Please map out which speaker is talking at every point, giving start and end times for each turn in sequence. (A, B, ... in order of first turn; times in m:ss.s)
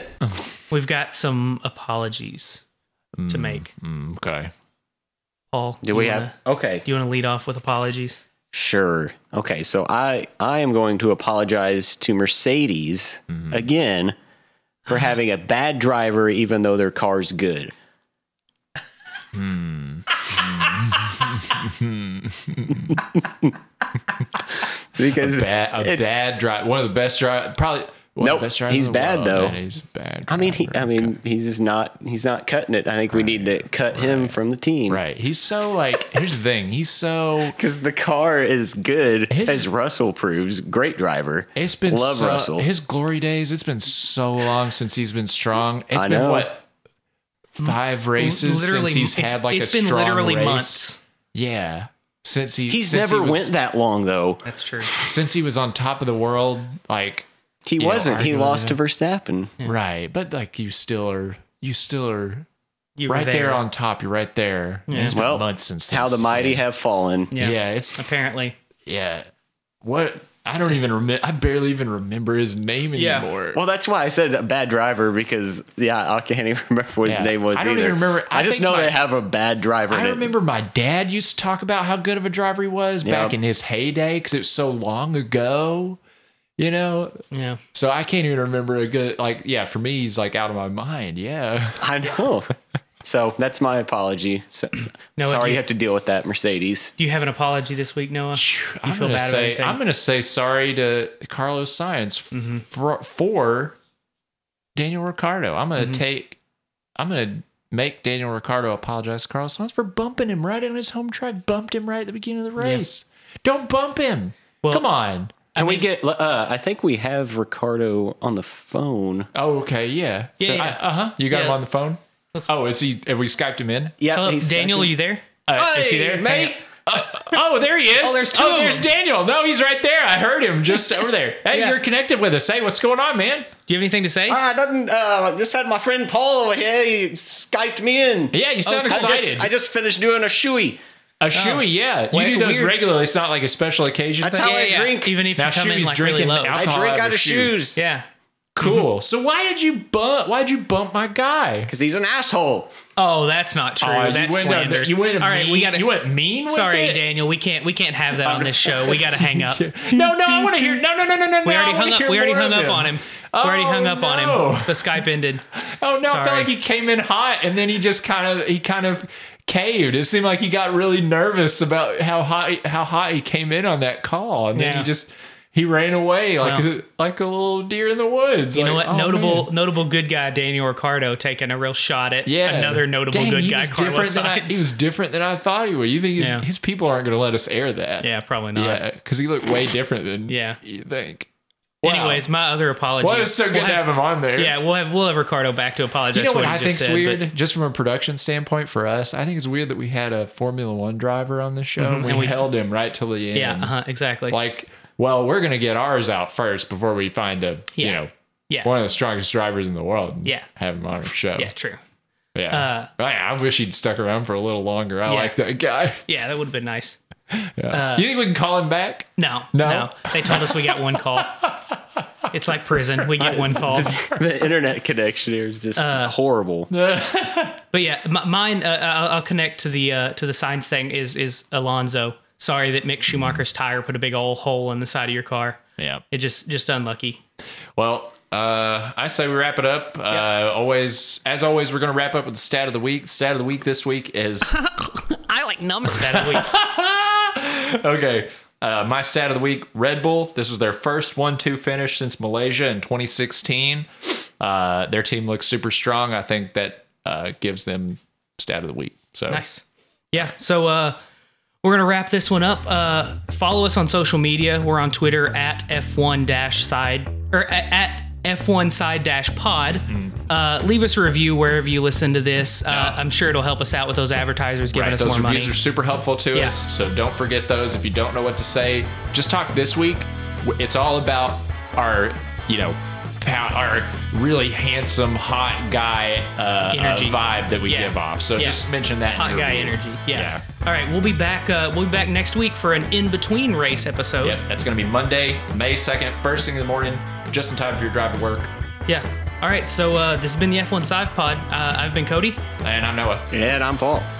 0:00.2-0:00.5 A
0:00.7-0:02.6 B
0:03.2-0:04.5 A
0:03.3-0:03.7 B
0:05.5-0:06.3 B
0:05.8-0:06.9 C
0:06.8-0:08.2 B
0:08.5-0:14.2 C
0:13.3-0:13.7 A
0:14.9-0:17.7 C
0:19.3-0:23.1 A
0:22.9-0:23.5 C
0:24.5-0:26.1 C
0:25.0-0:31.1 A
0:28.2-0:29.6 C
0:30.3-0:35.0 C
0:33.1-0:34.4 A
0:34.9-0:37.6 A
0:37.6-0:42.7 C
0:39.3-0:39.7 A
0:41.6-0:46.6 A
0:45.9-0:46.5 C
0:47.6-0:53.5 A
0:47.6-0:51.0 B
0:52.7-0:54.4 C
0:54.5-0:55.0 B
0:55.0-0:58.8 A
0:57.6-0:59.6 C
0:59.6-1:02.5 A
1:03.0-1:03.6 B
1:03.1-1:06.6 A
1:04.9-1:05.2 B
1:05.1-1:07.3 C
1:07.3-1:08.6 B
1:07.4-1:08.1 A
1:08.9-1:09.2 A
1:09.8-1:13.6 A
1:13.0-1:13.3 B
1:13.5-1:20.3 C
1:17.0-1:19.0 A
1:19.9-1:26.0 A
1:23.0-1:23.4 C
1:26.6-1:27.2 A
1:27.3-1:27.6 B
1:27.7-1:32.1 A
1:31.8-1:32.5 C
1:33.0-1:36.9 C
1:35.2-1:35.6 B
1:37.0-1:39.8 B
1:38.3-1:43.8 A
1:42.3-1:42.6 B
1:44.8-1:46.4 A
1:47.0-1:55.4 A
1:55.5-1:55.9 B
1:55.6-1:59.3 C
1:59.3-2:03.9 A
2:00.4-2:01.6 B
2:04.0-2:04.9 C
2:04.1-2:05.2 B
2:05.5-2:13.5 A
2:05.6-2:06.6 C
2:08.0-2:08.9 B
2:13.7-2:14.4 B
2:14.3-2:20.8 C
2:18.3-2:19.5 A
2:18.7-2:19.2 B
2:21.2-2:24.6 A
2:21.3-2:22.8 B
2:24.2-2:25.2 C
2:24.4-2:26.6 B
2:25.4-2:27.6 A
2:26.5-2:27.8 C
2:27.8-2:28.1 B
2:28.6-2:31.7 A
2:31.7-2:32.7 C
2:33.0-2:40.8 B
2:33.8-2:37.0 A
2:38.3-2:38.9 C
2:39.1-2:59.5 A
2:41.4-2:45.4 B
2:46.1-2:46.5 B
2:54.6-2:54.9 B
2:56.4-2:56.7 B
2:58.5-3:04.7 B
3:02.3-3:11.3 A
3:06.2-3:06.4 B
3:08.0-3:08.8 B
3:10.3-3:10.6 B
3:11.8-3:12.3 A
3:11.8-3:17.2 B
3:13.0-3:14.6 A
3:16.1-3:23.7 A
3:21.8-3:22.5 B
3:23.4-3:24.4 B
3:24.3-3:28.1 A
3:27.8-3:28.7 B
3:28.6-3:31.5 A
3:31.4-3:31.8 B
3:32.4-3:36.0 A
3:32.5-3:32.9 B
3:35.1-3:35.3 B
3:36.1-3:37.0 B
3:37.3-3:41.8 A
3:37.7-3:38.1 B
3:39.2-3:41.4 B
3:42.3-3:43.9 B
3:42.7-3:44.2 A
3:43.2-3:46.7 C
3:45.8-3:46.2 B
3:46.7-3:47.6 A
3:47.7-3:55.6 B
3:53.1-3:53.4 A
3:55.8-3:56.0 A
3:56.1-3:57.2 B
3:57.8-4:04.5 A
4:04.5-4:06.5 B
4:05.9-4:19.4 A
4:19.3-4:21.0 B
4:21.6-4:35.6 B
4:29.9-4:30.2 A
4:32.7-4:33.0 A
4:34.7-4:50.4 A
4:36.3-4:36.6 B
4:46.7-4:54.4 B
4:54.2-4:58.5 A
4:58.9-5:02.4 B
5:02.6-5:03.3 A
5:03.3-5:04.1 C